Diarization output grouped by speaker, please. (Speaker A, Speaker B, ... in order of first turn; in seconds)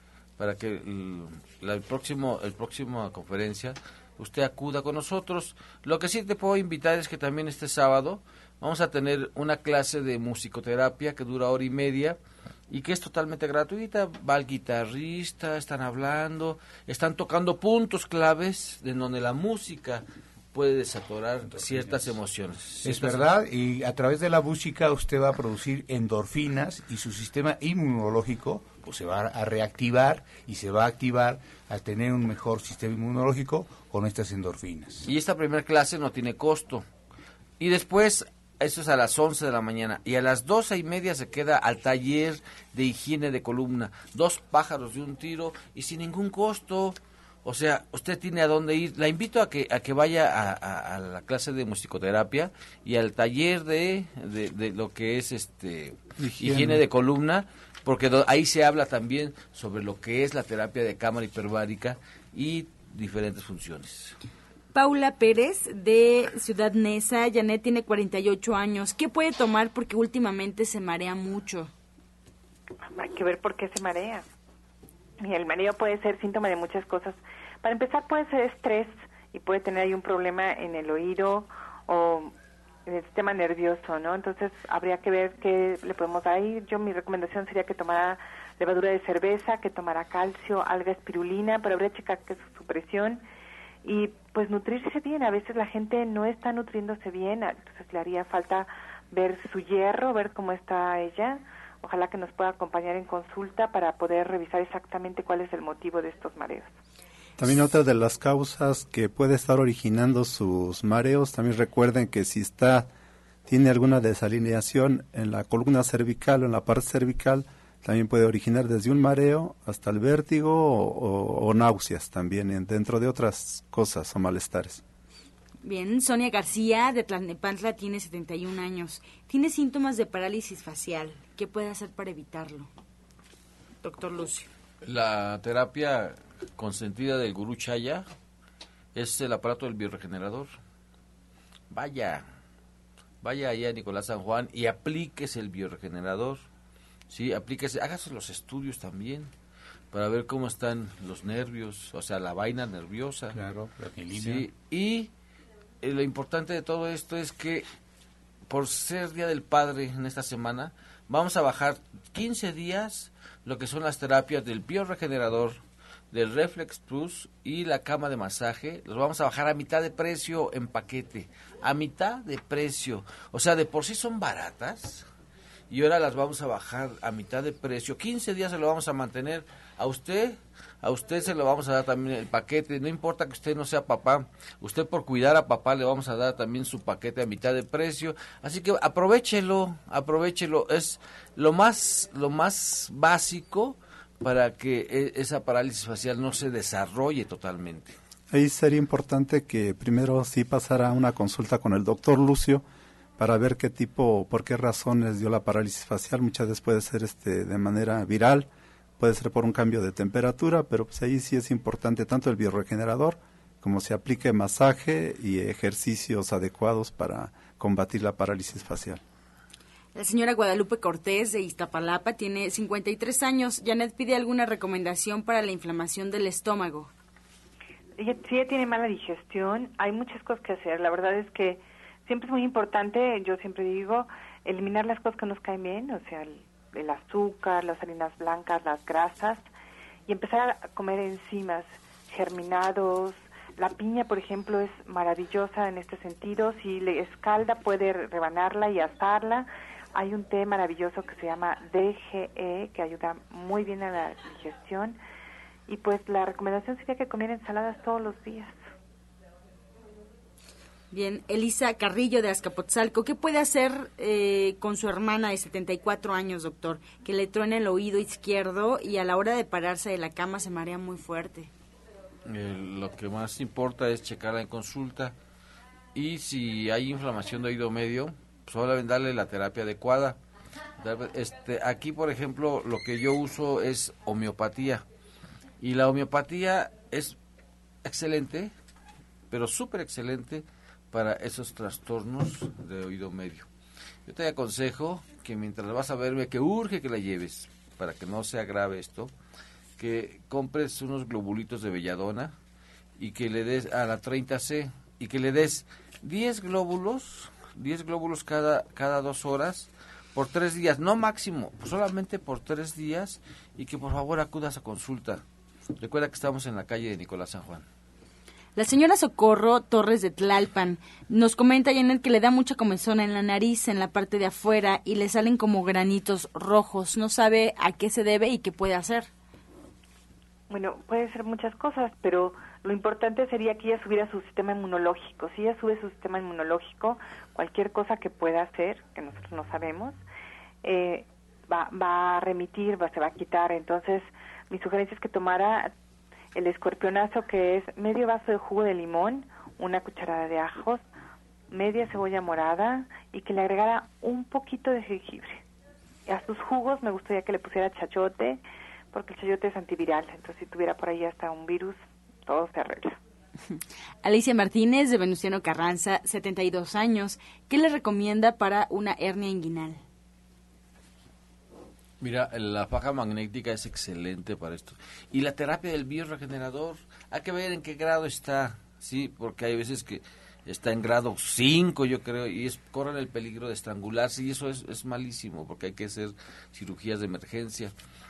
Speaker A: 0.4-12.2, 12.7-23.3, 35.1-36.9, 37.6-64.2, 134.8-138.1, 138.9-140.6, 141.7-142.3, 143.2-146.4, 147.1-149.3, 149.9-153.4, 154.1-155.1, 155.8-157.7, 158.5-175.1, 175.7-198.0, 272.3-275.1, 275.9-280.2, 280.8-284.9, 285.6-287.2, 287.8-288.5, 289.3-293.5, 294.1-299.1, 299.8-302.4, 303.0-315.2, 315.8-317.7, 372.0-387.7
Speaker B: 22.8-35.1, 153.3-154.5
Speaker C: 56.2-56.8, 107.4-112.9, 113.5-124.8, 198.3-202.6, 203.2-208.5, 209.0-219.0
Speaker D: 64.7-71.7, 125.6-132.7, 133.8-134.5, 219.9-226.9, 260.9-271.5, 318.6-329.1, 363.5-369.8
Speaker E: 72.9-74.2, 75.2-82.3, 82.9-93.2, 93.8-106.7, 228.0-239.4, 240.1-255.0, 255.7-258.6, 330.5-340.0, 340.6-345.7, 346.4-350.8, 351.5-355.4, 356.1-358.4, 358.9-363.0